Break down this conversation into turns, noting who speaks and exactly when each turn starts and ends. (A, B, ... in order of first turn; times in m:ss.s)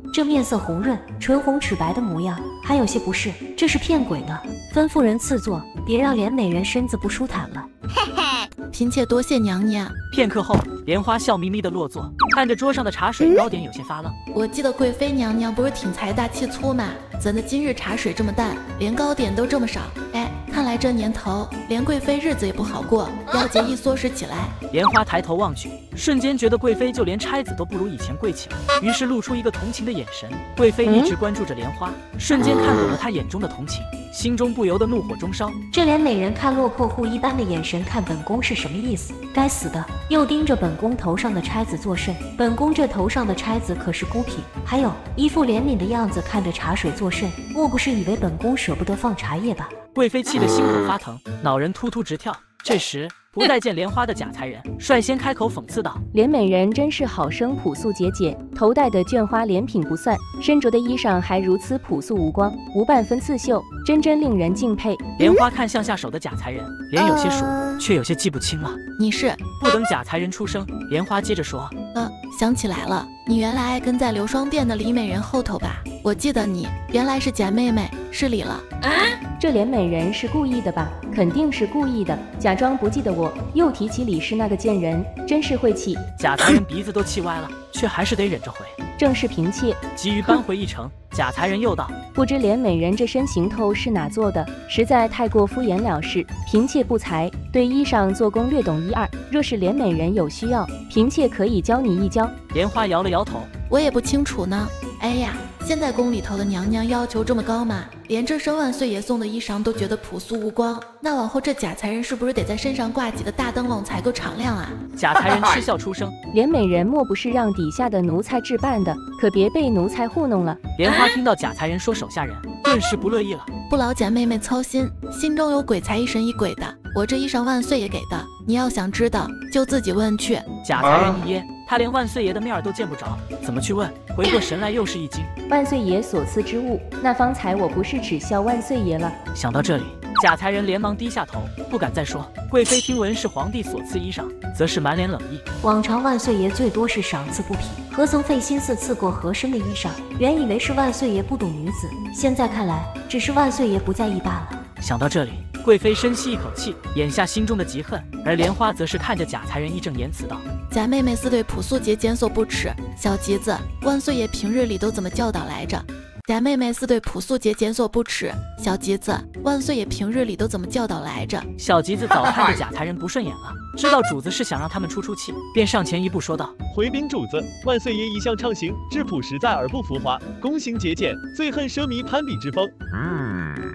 0:00.1-0:07.7 A
0:08.7-0:09.9 B
0:10.1-0:14.2 C
0:14.3-0:24.5 B
0:24.7-0:35.6 C
0:35.7-0:49.7 A
0:49.9-0:56.0 C
0:56.1-1:05.2 D
1:05.2-1:08.8 C
1:09.0-1:09.4 B
1:09.6-1:11.7 C
1:11.9-1:18.6 B
1:19.4-1:26.0 D
1:26.2-1:28.8 C
1:29.0-1:29.8 D
1:30.0-1:31.9 C
1:32.1-1:42.3 D
1:42.5-1:43.5 C
1:43.7-1:54.8 B
1:55.0-1:56.1 C
1:56.3-2:00.6 D
2:00.8-2:03.5 C
2:03.7-2:10.5 B
2:10.6-2:15.3 C
2:15.5-2:19.2 D
2:19.3-2:25.4 C
2:25.6-2:34.6 A
2:34.8-2:40.4 C
2:40.7-2:51.5 B
2:51.6-2:56.5 C
2:56.7-3:02.7 E